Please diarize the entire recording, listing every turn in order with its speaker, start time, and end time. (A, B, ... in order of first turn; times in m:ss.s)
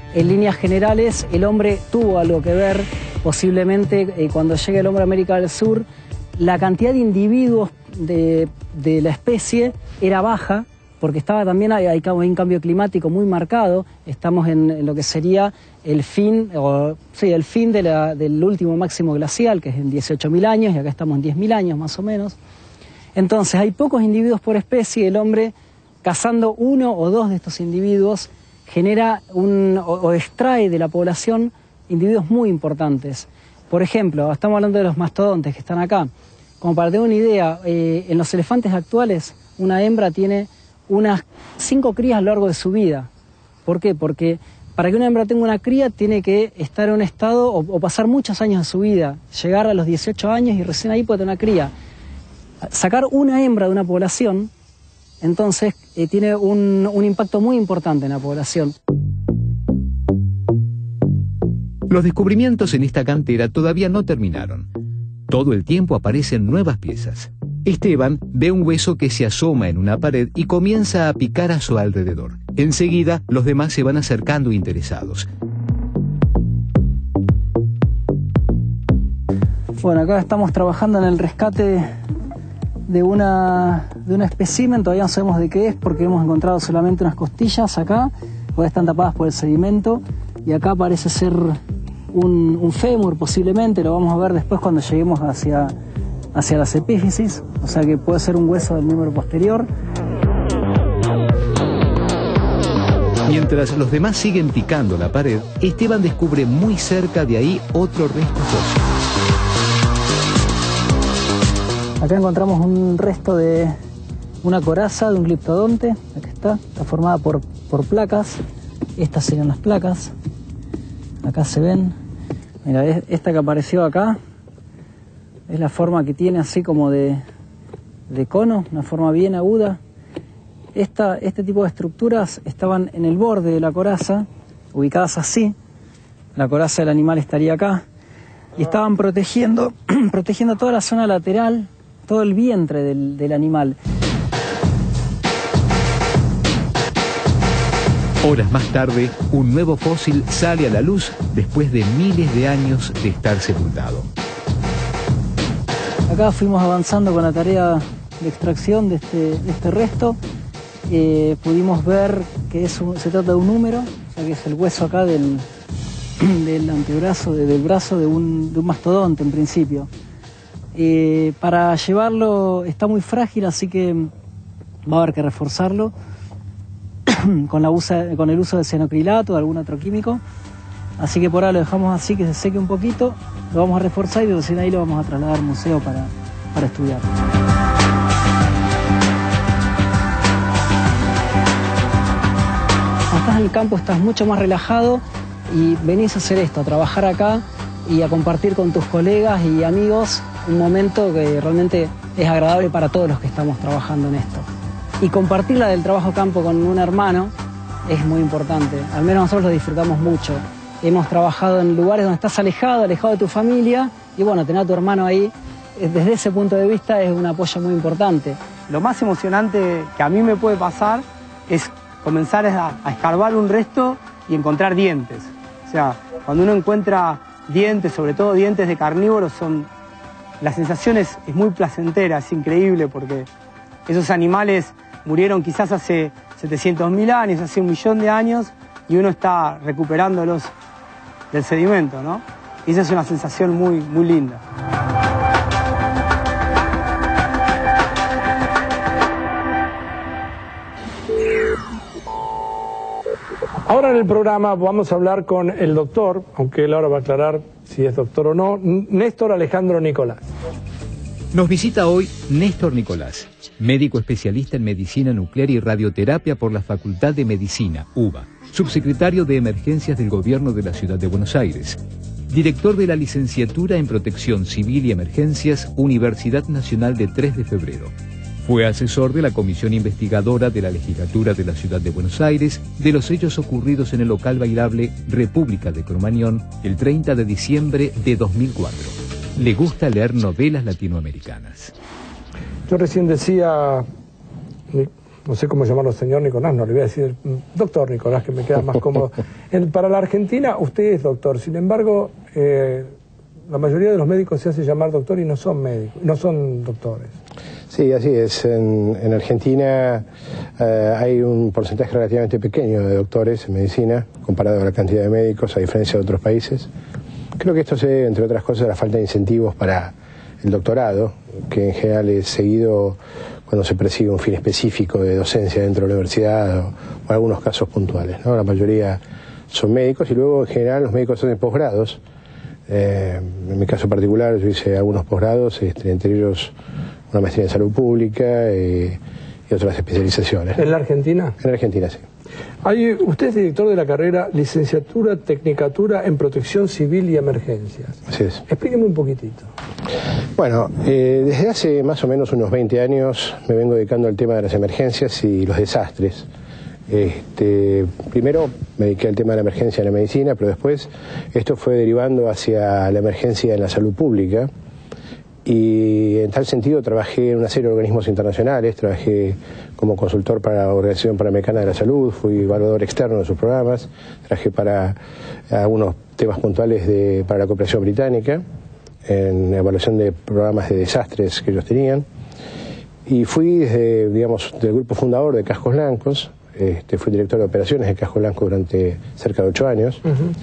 0:00.1-0:05.8 A
0:06.4-0:22.4 A
0:23.1-0:43.1 A
0:43.6-0:51.7 A
0:52.6-0:54.5 A
0:55.2-0:58.7 A
1:01.9-1:04.7 B
1:05.3-1:15.3 B
1:19.8-1:21.9 A
1:22.9-1:31.6 A
1:32.1-1:35.7 A
1:36.3-1:39.7 A
1:43.2-1:48.8 B
1:52.0-1:53.7 A
1:54.4-1:58.4 A
1:59.0-2:00.1 A
2:01.2-2:01.9 A
2:02.6-2:04.2 A
2:05.5-2:07.2 A
2:08.1-2:09.8 A
2:10.7-2:15.5 A
2:16.3-2:17.8 A
2:18.6-2:23.8 A
2:28.2-2:34.1 B
2:36.1-2:40.2 A
2:40.9-2:45.4 A
2:46.2-2:49.9 A
2:50.7-2:54.1 A
2:54.8-2:55.9 A
2:57.1-3:00.2 A
3:01.0-3:07.1 A
3:13.1-3:24.4 A
3:25.0-3:27.3 A
3:27.8-3:38.4 A
3:38.7-3:49.7 C
3:50.4-3:53.3 C
3:53.9-4:00.5 C
4:01.3-4:04.4 C
4:13.6-4:20.2 D
4:21.3-4:37.9 B
4:38.4-4:51.7 B
4:52.7-4:53.8 D
4:54.7-5:02.9 D
5:03.5-5:07.1 D
5:07.7-5:10.0 E
5:10.6-5:16.7 E
5:17.4-5:32.0 E
5:32.7-5:36.5 E
5:37.1-5:40.6 E
5:40.6-5:41.3 D
5:41.4-5:42.0 E
5:42.6-5:49.5 D
5:48.1-5:48.4 E
5:50.4-5:56.3 E
5:56.9-6:04.5 E
6:05.4-6:15.0 E
6:15.5-6:18.4 E
6:19.0-6:22.0 E
6:23.0-6:30.0 E